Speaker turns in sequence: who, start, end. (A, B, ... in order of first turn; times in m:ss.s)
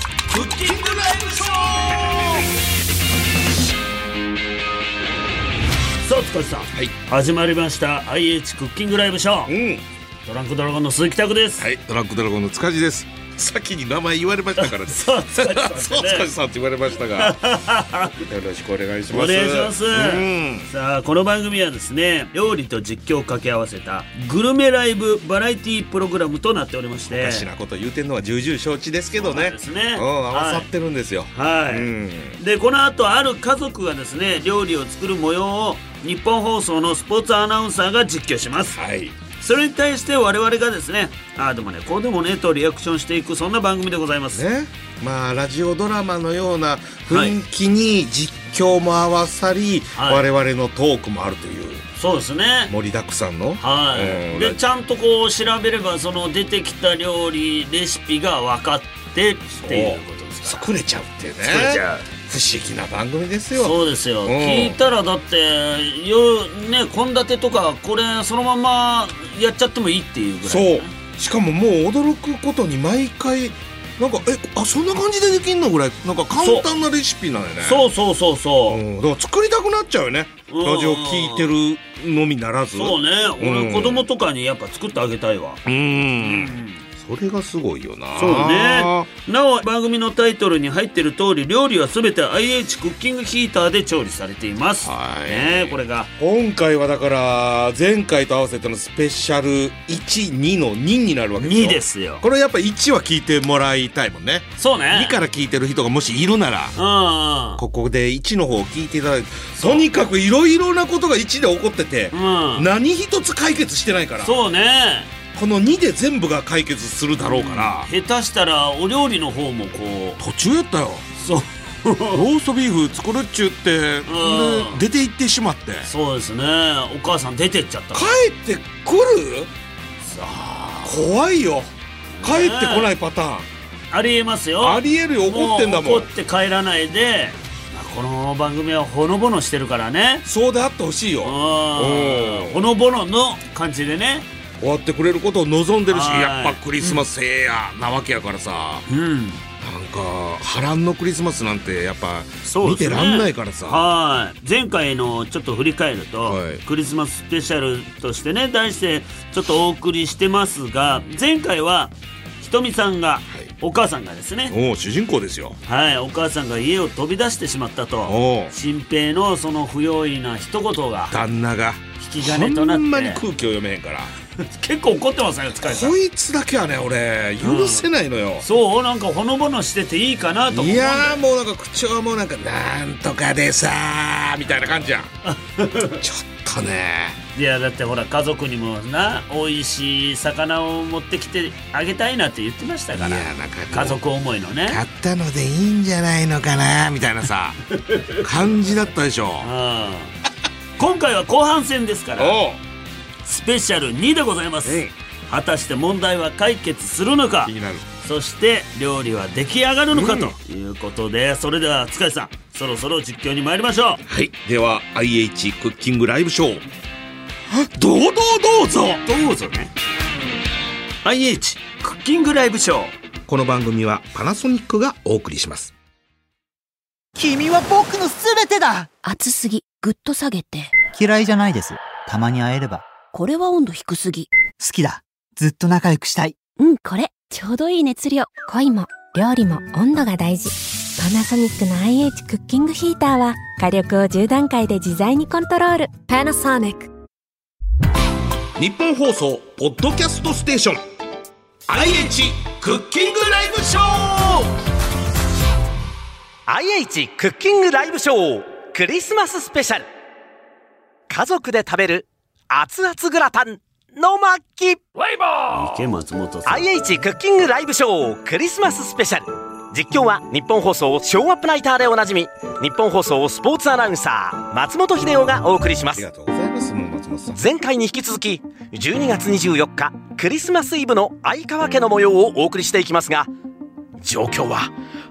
0:00.3-0:02.4 A
0:06.0-0:09.5 B
0:09.5-0:09.8 A
0:10.2-0:11.7 B
0:11.6-0:17.4 A
0:14.6-0:16.3 B
0:17.1-0:18.2 B
0:18.3-0:20.7 A
0:19.1-0:27.4 B
0:27.1-0:32.4 A
0:29.1-0:30.7 B
0:31.3-0:38.8 B
0:38.7-0:39.2 A
0:39.4-0:44.4 B
0:44.3-0:51.8 A
0:47.1-0:47.4 B
0:50.0-0:50.2 B
0:52.0-0:52.7 B
0:52.7-0:54.6 A
0:53.6-1:00.7 B
0:59.6-1:04.8 A
1:01.4-1:02.0 B
1:03.6-1:10.9 B
1:10.4-1:17.8 A
1:16.4-1:16.7 B
1:17.6-1:18.8 B
1:18.7-1:24.0 A
1:20.5-1:21.5 B
1:22.7-1:25.6 B
1:25.6-1:29.1 A
1:26.2-1:26.8 B
1:28.1-1:36.1 B
1:34.8-1:46.8 A
1:41.4-1:42.2 B
1:44.6-1:45.2 B
1:46.8-1:47.6 B
1:47.6-1:54.3 A
1:49.6-1:49.8 B
1:52.1-1:52.7 B
1:54.2-1:55.1 B
1:55.3-1:57.9 A
1:57.2-2:00.2 B
2:00.2-2:01.0 A
2:01.2-2:02.2 B
2:02.1-2:05.9 A
2:04.0-2:04.8 B
2:05.8-2:08.1 B
2:07.9-2:09.5 A
2:10.0-2:11.0 B
2:10.8-2:13.5 A
2:12.2-2:12.9 B
2:13.9-2:20.2 B
2:14.6-2:16.1 A
2:20.2-2:22.6 A
2:21.2-2:24.3 B
2:24.6-2:28.8 A
2:25.9-2:26.8 B
2:28.9-2:29.4 B
2:29.6-2:33.8 A
2:32.4-2:44.5 B
2:36.2-2:36.6 A
2:44.5-2:45.6 A
2:45.7-2:51.2 B
2:48.0-2:48.5 A
2:51.1-2:54.1 A
2:52.0-2:53.2 B
2:54.4-2:56.0 B
2:55.6-2:58.4 A
2:57.4-2:57.9 B
2:58.4-3:01.2 B
3:00.5-3:05.1 A
3:04.5-3:06.0 B
3:06.0-3:07.2 A
3:07.3-3:14.8 B
3:13.0-3:14.0 A
3:14.6-3:17.6 A
3:17.9-3:18.2 B
3:18.2-3:19.5 A
3:19.4-3:20.1 B
3:20.8-3:22.4 B
3:22.2-3:22.6 A
3:23.2-3:34.0 B
3:24.6-3:24.9 A
3:27.4-3:27.8 A
3:29.9-3:30.3 A
3:34.1-3:36.6 A
3:37.5-3:39.0 A
3:39.0-3:39.7 B
3:41.0-3:42.9 B
3:43.3-3:45.7 A
3:47.1-3:48.9 C
3:49.0-3:50.7 D
3:50.9-3:52.9 C
3:53.1-3:54.3 D
3:54.6-3:56.4 C
3:56.6-4:06.9 D
4:08.6-4:10.8 A
4:11.7-4:14.4 A
4:16.5-4:19.9 E
4:21.1-4:24.8 E
4:25.1-4:25.6 A
4:25.5-4:26.6 B
4:26.4-4:36.0 E
4:35.9-4:37.4 A
4:37.3-4:43.3 E
4:44.0-4:44.7 E